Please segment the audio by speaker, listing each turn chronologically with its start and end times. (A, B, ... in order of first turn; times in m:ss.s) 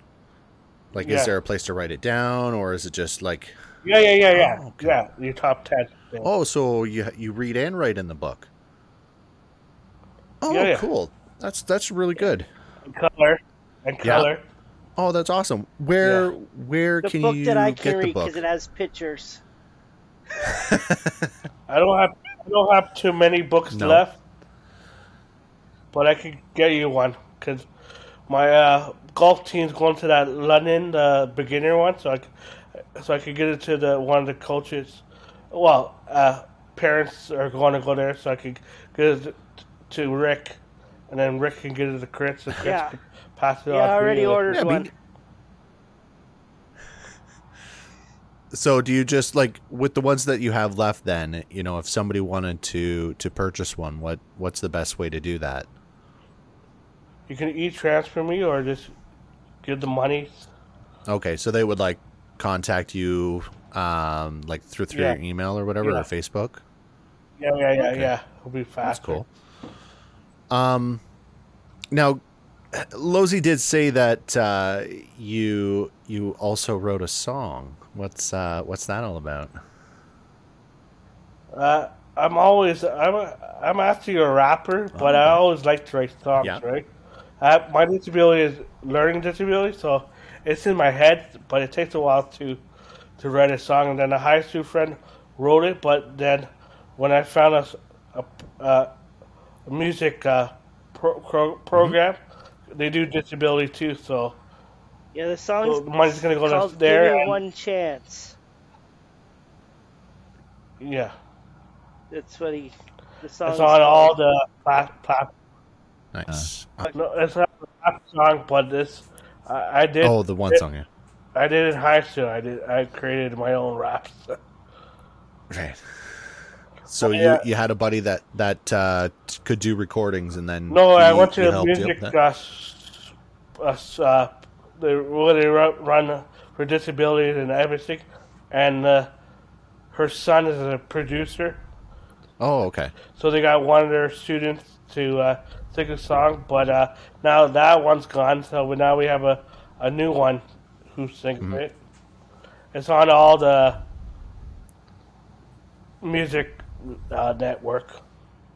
0:00.9-0:03.5 A
0:01.0-0:01.3 B
0:03.8-0:06.3 B
0:04.3-0:05.0 A
0:06.2-0:08.5 A
0:10.4-0:12.5 A
0:10.5-0:10.9 B
0:12.9-0:14.4 B
0:14.0-0:14.3 A
0:15.0-0:18.4 A
0:16.0-0:16.3 B
0:17.0-0:19.4 C
0:20.4-0:21.3 A
0:21.7-0:24.2 B
0:23.7-0:24.0 A
0:25.9-0:27.7 B
0:28.3-0:44.6 B
0:42.6-0:43.0 C
0:43.7-0:44.9 C
0:44.5-0:44.9 A
0:48.5-0:55.7 A
0:57.3-0:58.9 B
0:59.6-1:00.5 B
1:01.1-1:06.6 A
1:04.9-1:05.2 B
1:05.8-1:06.1 B
1:07.4-1:09.2 B
1:07.8-1:08.1 A
1:08.8-1:09.3 A
1:10.5-1:11.0 A
1:11.9-1:12.2 A
1:12.7-1:19.5 A
1:21.5-1:26.9 B
1:24.9-1:25.4 A
1:27.4-1:32.6 B
1:33.2-1:38.9 B
1:39.7-1:42.2 B
1:42.7-1:44.4 B
1:45.1-1:48.3 C
1:45.6-1:47.4 B
1:50.8-1:51.1 B
1:52.1-1:54.1 C
1:53.4-1:55.3 B
1:56.1-1:56.9 A
1:56.9-2:00.6 B
2:00.0-2:00.9 A
2:01.3-2:04.4 B
2:05.5-2:06.3 A
2:06.9-2:12.1 A
2:07.0-2:07.4 B
2:10.7-2:19.1 B
2:19.9-2:21.6 B
2:22.4-2:22.9 A
2:23.2-2:31.8 B
2:32.7-2:33.8 B
2:36.0-2:38.0 B